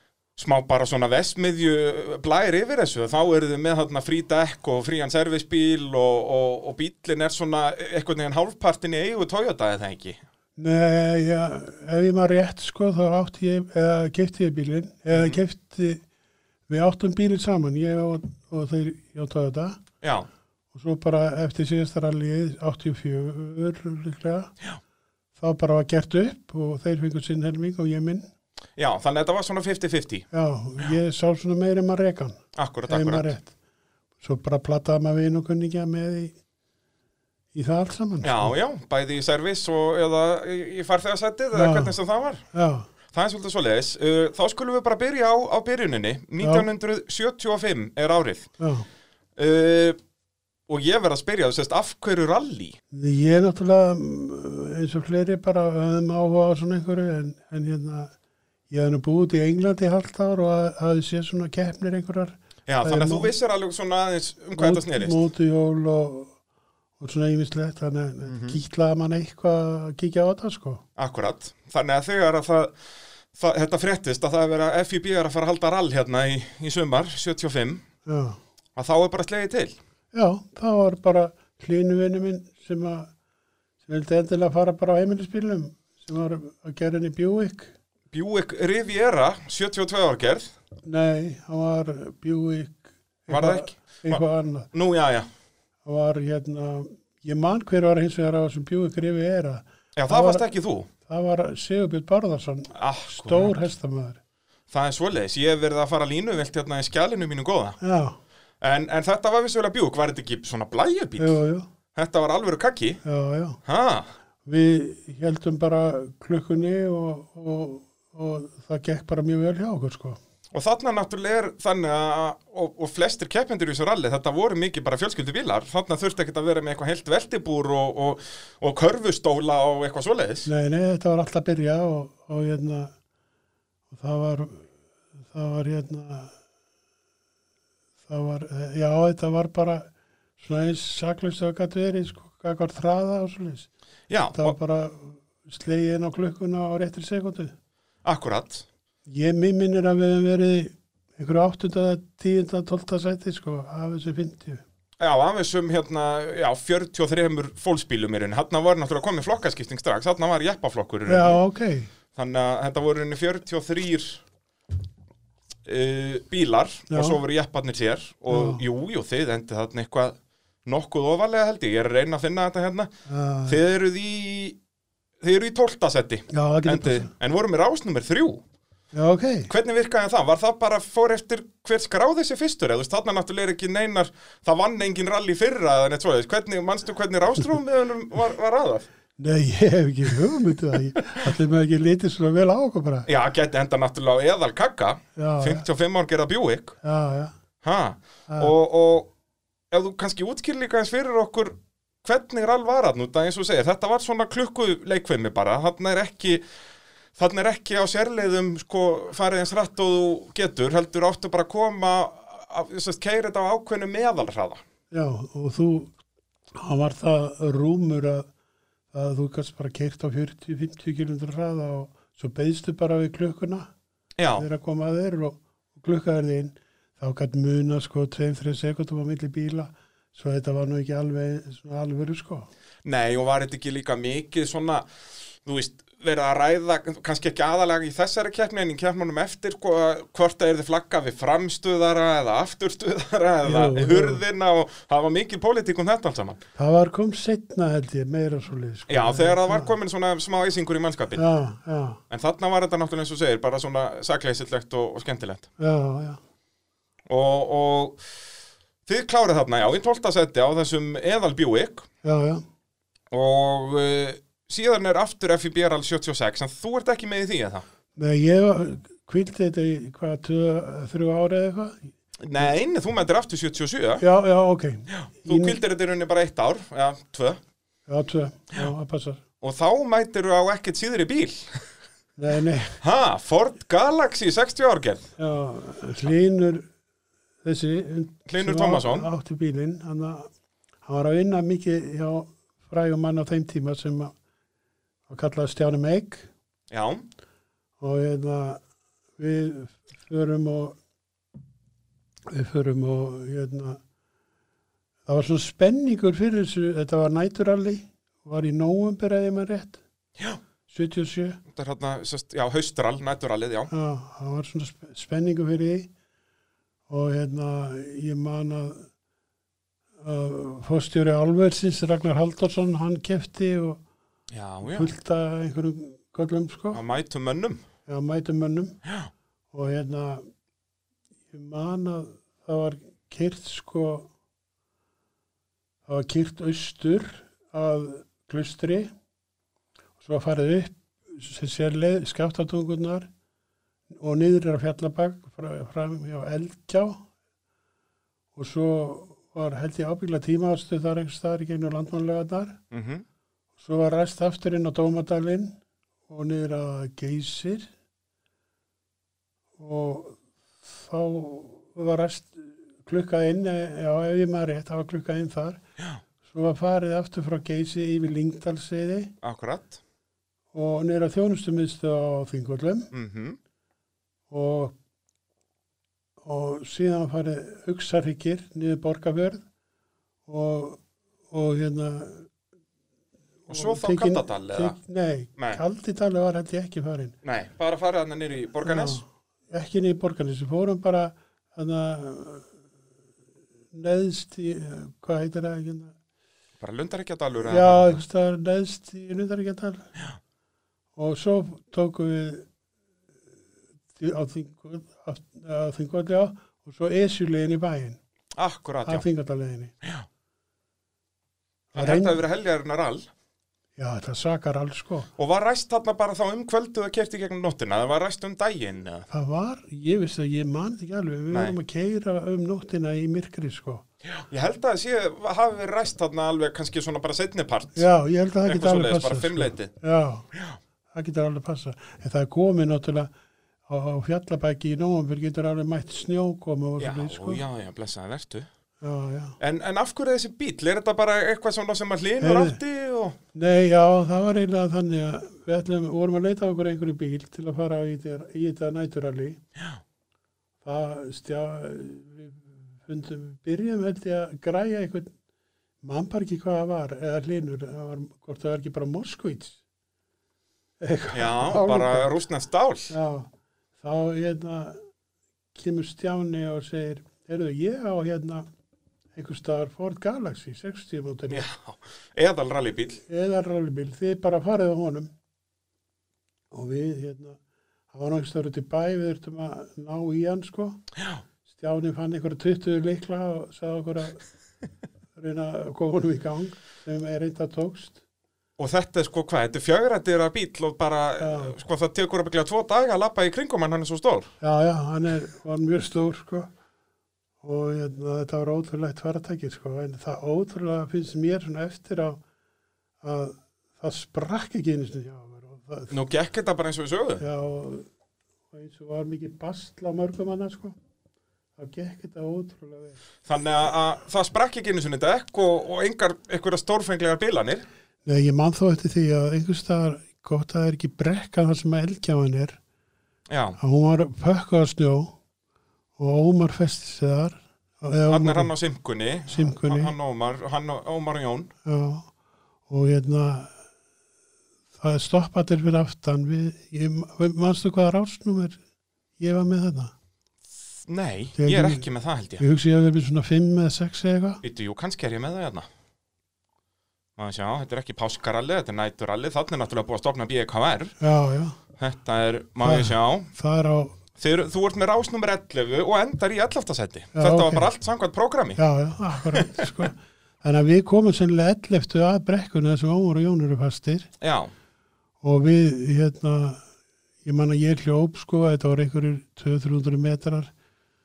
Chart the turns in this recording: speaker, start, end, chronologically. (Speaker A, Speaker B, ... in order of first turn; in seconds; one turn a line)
Speaker A: 0.4-10.2
Speaker B: 10.6-16.0
Speaker A: 15.1-15.4
Speaker B: 16.7-19.8
Speaker A: 20.0-20.3
Speaker B: 20.7-24.5
Speaker B: 25.4-28.3
Speaker A: 28.8-30.3
Speaker B: 30.3-33.5
Speaker A: 32.5-33.4
Speaker B: 34.2-36.4
Speaker B: 37.5-38.5
Speaker A: 38.2-42.4
Speaker B: 41.5-42.0
Speaker B: 42.5-42.9
Speaker A: 43.1-48.5
Speaker B: 46.4-46.7
Speaker B: 48.6-48.9
Speaker A: 49.4-50.0
Speaker A: 50.7-52.8
Speaker B: 52.9-58.1
Speaker B: 58.7-63.3
Speaker A: 62.7-65.2
Speaker B: 64.6-66.3
Speaker B: 67.0-70.8
Speaker A: 68.3-68.6
Speaker A: 71.0-72.7
Speaker A: 73.3-77.8
Speaker B: 78.1-78.4
Speaker A: 78.8-79.8
Speaker B: 80.1-83.1
Speaker B: 83.8-87.7
Speaker A: 88.1-90.5
Speaker B: 90.8-94.7
Speaker A: 93.3-94.2
Speaker A: 94.7-95.3
Speaker B: 95.8-100.5
Speaker A: 100.0-100.9
Speaker B: 101.0-104.2
Speaker A: 102.7-103.5
Speaker A: 104.7-107.8
Speaker B: 107.8-108.2
Speaker A: 108.6-111.4
Speaker B: 111.2-111.7
Speaker A: 111.9-113.0
Speaker B: 113.0-113.6
Speaker A: 113.7-114.1
Speaker B: 114.5-120.2
Speaker A: 120.5-130.5
Speaker B: 130.4-132.9
Speaker B: 133.9-134.7
Speaker B: 135.2-136.3
Speaker B: 138.1-143.7
Speaker A: 144.1-144.6
Speaker B: 144.3-147.5
Speaker A: 148.0-148.7
Speaker B: 149.1-154.6
Speaker A: 155.0-161.4
Speaker B: 161.1-161.9
Speaker A: 162.1-164.2
Speaker A: 165.7-172.9
Speaker B: 166.9-167.2
Speaker B: 168.3-168.6
Speaker B: 173.1-173.6
Speaker A: 173.5-174.6
Speaker A: 175.2-178.4
Speaker B: 176.3-177.1
Speaker B: 178.9-179.5
Speaker A: 179.5-188.9
Speaker B: 189.2-193.1
Speaker A: 193.1-196.8
Speaker B: 195.2-195.6
Speaker B: 196.8-197.3
Speaker A: 197.6-199.1
Speaker B: 198.3-198.5
Speaker A: 199.7-206.4
Speaker A: 207.2-214.6
Speaker B: 214.9-215.9
Speaker B: 216.5-218.3
Speaker B: 218.9-223.7
Speaker A: 224.2-224.5
Speaker B: 224.3-232.5
Speaker A: 232.8-234.9
Speaker A: 235.4-246.4
Speaker B: 243.4-244.2
Speaker B: 246.6-249.7
Speaker A: 248.9-251.2
Speaker B: 251.2-252.0
Speaker A: 252.1-255.5
Speaker B: 255.6-256.2
Speaker A: 257.1-258.0
Speaker A: 258.9-261.9
Speaker B: 262.0-262.4
Speaker A: 263.1-267.6
Speaker B: 267.9-272.4
Speaker A: 272.2-274.0
Speaker B: 274.0-275.6
Speaker A: 274.9-277.4
Speaker B: 277.9-279.2
Speaker A: 279.4-281.6
Speaker B: 282.2-282.8
Speaker A: 282.8-285.1
Speaker B: 285.2-286.7
Speaker B: 287.4-290.3
Speaker A: 288.3-289.1
Speaker B: 290.9-294.1
Speaker B: 295.1-296.3
Speaker A: 296.7-297.1
Speaker B: 297.8-298.6
Speaker B: 299.2-300.8
Speaker B: 302.3-303.8
Speaker B: 305.1-309.8
Speaker B: 310.7-311.4
Speaker A: 311.5-313.7
Speaker B: 313.7-315.9
Speaker B: 316.9-318.9
Speaker B: 320.0-323.8
Speaker A: 324.3-324.9
Speaker B: 324.6-326.8
Speaker A: 326.7-327.6
Speaker B: 327.9-328.8
Speaker A: 328.9-329.1
Speaker B: 329.5-330.2
Speaker B: 331.3-334.1
Speaker B: 335.9-338.9
Speaker B: 340.0-343.1
Speaker B: 343.9-347.1
Speaker B: 348.4-352.6
Speaker A: 352.7-353.0
Speaker B: 353.6-357.7
Speaker B: 359.6-365.6
Speaker B: 366.2-369.1
Speaker A: 369.2-369.8
Speaker B: 370.5-372.9
Speaker A: 372.9-373.4
Speaker B: 374.3-374.8
Speaker B: 376.2-379.4
Speaker B: 380.2-382.3
Speaker B: 383.5-387.1
Speaker A: 383.5-384.8
Speaker A: 387.2-389.0
Speaker B: 388.6-392.5
Speaker B: 393.7-395.9
Speaker A: 396.6-398.0
Speaker B: 397.4-399.9
Speaker B: 401.0-402.5
Speaker B: 403.9-408.0
Speaker A: 408.4-409.1
Speaker B: 408.9-409.7
Speaker B: 411.7-412.2
Speaker A: 411.8-413.1
Speaker B: 413.8-415.1
Speaker A: 415.2-419.1
Speaker B: 419.1-423.8
Speaker A: 424.1-427.9
Speaker B: 427.8-430.2
Speaker A: 428.4-429.7
Speaker B: 430.9-433.1
Speaker B: 433.7-437.4
Speaker A: 436.8-438.5
Speaker B: 438.8-439.4
Speaker A: 439.4-443.2
Speaker B: 442.2-442.6
Speaker B: 443.3-449.4
Speaker B: 450.6-455.1
Speaker B: 455.8-459.6
Speaker B: 460.8-462.1
Speaker A: 461.1-462.9
Speaker B: 462.9-464.8
Speaker B: 465.6-468.5
Speaker B: 469.1-471.5
Speaker A: 471.3-473.0
Speaker B: 473.1-475.1
Speaker B: 476.5-477.4
Speaker B: 477.9-480.8
Speaker B: 481.5-484.2
Speaker B: 485.1-488.0
Speaker A: 488.6-494.3
Speaker B: 491.2-491.6
Speaker B: 494.4-496.5
Speaker B: 497.4-502.2
Speaker B: 503.0-505.9
Speaker A: 505.9-507.2
Speaker B: 507.2-507.9
Speaker B: 508.5-510.8
Speaker B: 511.6-513.0
Speaker A: 513.2-517.6
Speaker B: 518.0-522.6
Speaker A: 523.3-523.6
Speaker B: 523.6-525.1
Speaker B: 526.0-528.5
Speaker A: 528.1-531.5
Speaker B: 529.3-529.9
Speaker B: 531.6-532.1
Speaker B: 532.7-533.5
Speaker B: 534.8-538.6
Speaker B: 539.2-539.9
Speaker A: 540.8-542.4
Speaker B: 541.4-541.9
Speaker B: 542.4-544.4
Speaker A: 544.4-545.7
Speaker A: 547.2-551.0
Speaker B: 551.0-551.6
Speaker A: 551.8-553.3
Speaker B: 552.6-554.0
Speaker A: 554.2-558.6
Speaker B: 557.1-557.7
Speaker B: 558.6-564.1
Speaker A: 559.3-559.7
Speaker A: 564.2-564.5
Speaker B: 565.2-566.6
Speaker B: 567.2-570.5